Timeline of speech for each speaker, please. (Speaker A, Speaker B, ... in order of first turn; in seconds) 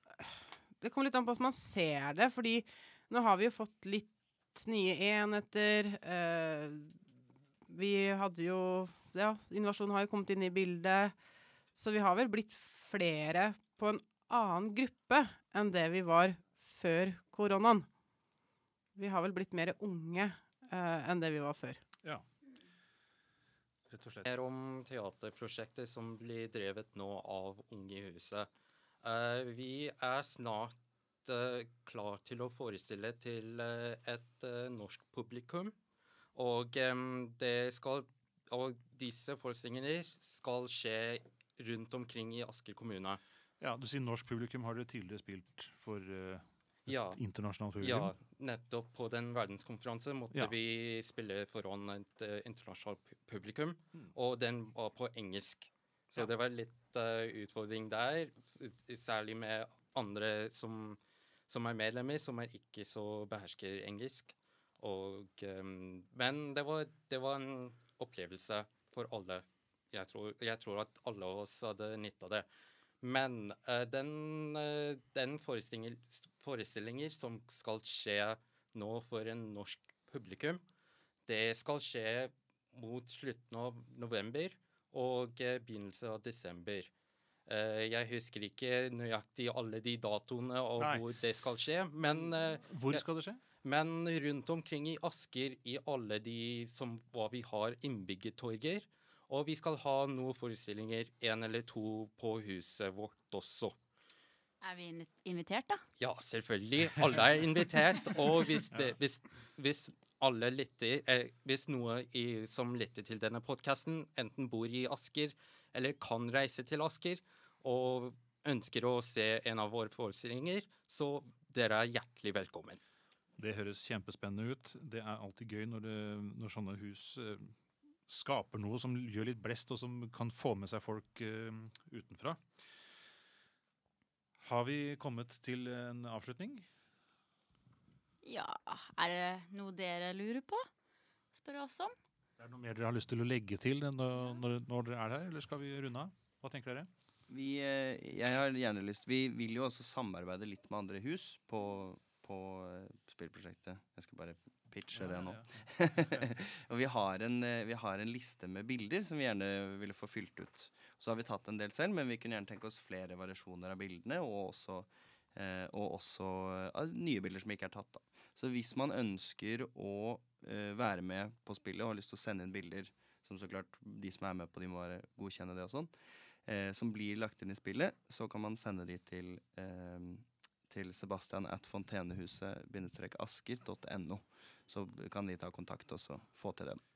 Speaker A: 0.2-7.0, 7.7-11.1, 11.7-17.9, 18.9-21.8
Speaker B: 23.9-24.3, 43.6-48.1, 90.8-91.0, 92.1-93.4, 123.4-127.5, 128.1-132.4, 134.4-136.7, 142.4-146.9, 154.9-156.2
Speaker C: 24.2-28.5, 29.0-35.7, 36.3-43.2, 46.9-47.2, 47.8-72.5, 73.0-80.6, 81.3-86.9, 87.5-93.0, 93.6-103.7, 106.0-122.8
Speaker D: 104.6-105.8, 138.2-140.6, 141.3-141.9
Speaker E: 147.3-175.9, 176.4-186.8